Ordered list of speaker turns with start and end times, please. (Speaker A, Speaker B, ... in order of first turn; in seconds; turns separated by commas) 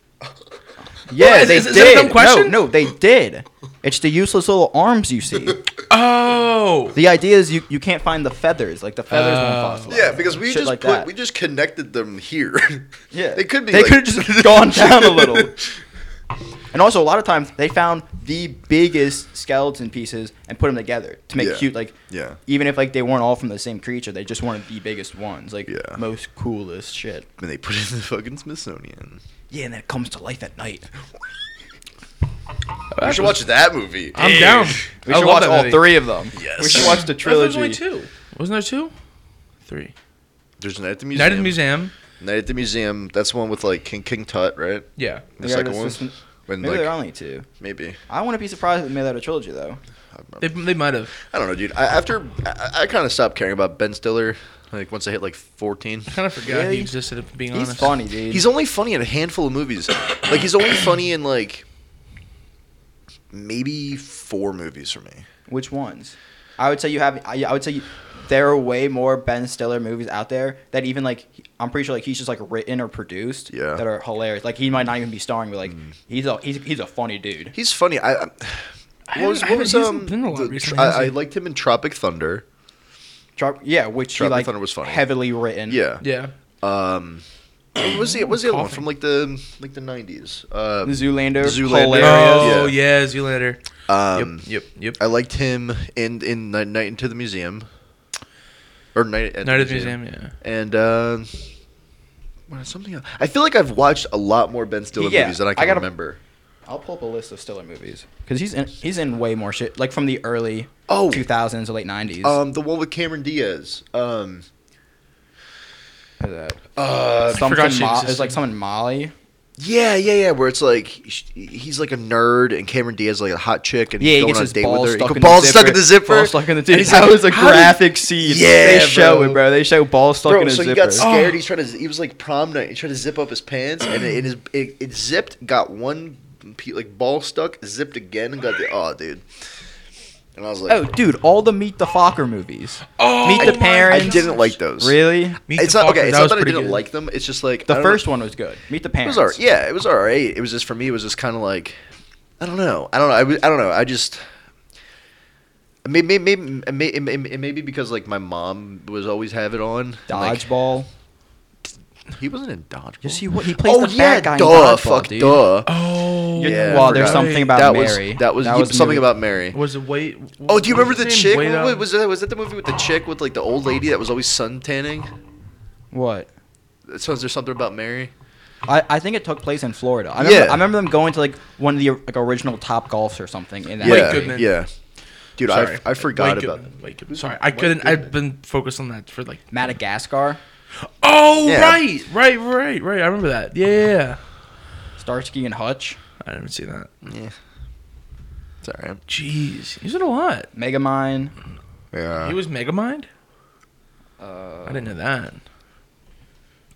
Speaker A: 1.1-5.6, Speaker B: 1.1-2.6, Speaker B: 5.9-7.0, Speaker A: 7.0-11.1, Speaker B: 9.1-10.0, Speaker C: 9.9-15.7, Speaker A: 13.1-15.6, Speaker A: 16.7-21.9, Speaker C: 21.4-22.4, Speaker A: 22.5-27.3, Speaker C: 25.7-26.0, Speaker C: 27.4-29.2, Speaker A: 29.5-30.9, Speaker B: 32.9-33.4, Speaker C: 33.0-34.8, Speaker B: 34.1-36.0, Speaker A: 35.0-37.8, Speaker C: 36.3-37.1, Speaker B: 36.7-38.9, Speaker B: 39.7-39.9, Speaker C: 40.6-41.6, Speaker B: 41.1-41.9, Speaker C: 42.2-46.9, Speaker B: 45.0-45.3, Speaker A: 45.4-47.5, Speaker C: 47.6-48.0, Speaker A: 48.1-49.8, Speaker C: 50.1-50.5, Speaker B: 50.4-51.2, Speaker C: 51.2-56.1, Speaker B: 56.1-58.0, Speaker A: 56.5-56.9, Speaker A: 57.5-58.5, Speaker C: 58.3-61.6, Speaker C: 63.3-65.2, Speaker A: 65.5-77.5, Speaker C: 73.5-73.8, Speaker C: 77.5-82.5, Speaker B: 79.1-81.2, Speaker A: 83.4-85.8, Speaker C: 84.2-85.1, Speaker C: 85.7-86.0, Speaker B: 86.0-86.3, Speaker C: 86.6-87.2, Speaker C: 87.8-92.8, Speaker B: 87.9-88.9, Speaker A: 90.8-92.7, Speaker B: 92.0-93.6, Speaker C: 93.9-94.5, Speaker B: 94.1-95.0, Speaker C: 95.0-97.7, Speaker C: 99.0-101.5, Speaker B: 99.4-100.3, Speaker C: 102.5-106.2, Speaker A: 105.0-105.9, Speaker A: 106.7-112.4, Speaker C: 110.9-111.3, Speaker C: 112.2-114.5, Speaker A: 116.2-116.6, Speaker C: 116.8-117.5, Speaker A: 117.3-119.1, Speaker B: 117.3-118.4, Speaker C: 119.6-129.5, Speaker A: 124.0-131.1, Speaker C: 130.2-139.2, Speaker B: 131.0-131.4, Speaker C: 140.3-140.8, Speaker A: 140.7-145.4, Speaker B: 143.0-144.5, Speaker C: 143.3-148.0, Speaker B: 145.5-146.8, Speaker A: 147.7-149.4, Speaker C: 149.0-151.8, Speaker C: 152.4-154.2, Speaker C: 155.8-160.4, Speaker A: 160.1-160.9, Speaker C: 162.1-165.7, Speaker A: 163.0-165.4, Speaker B: 165.7-167.7, Speaker A: 166.4-169.1, Speaker C: 166.4-169.6, Speaker B: 169.5-171.9, Speaker C: 170.4-175.1, Speaker A: 175.9-176.3, Speaker C: 176.9-178.1, Speaker A: 178.7-184.4, Speaker C: 180.2-180.7, Speaker B: 183.8-184.5, Speaker C: 183.8-184.7, Speaker C: 185.4-188.1, Speaker B: 185.4-189.5, Speaker A: 189.5-190.4, Speaker B: 190.9-194.2, Speaker C: 191.4-191.8, Speaker A: 195.0-196.0, Speaker B: 196.2-196.9, Speaker C: 197.0-197.3, Speaker C: 198.6-199.0, Speaker B: 199.1-200.5, Speaker A: 200.5-201.3, Speaker C: 201.9-202.4, Speaker B: 202.2-203.1, Speaker A: 204.2-204.9, Speaker B: 204.7-205.4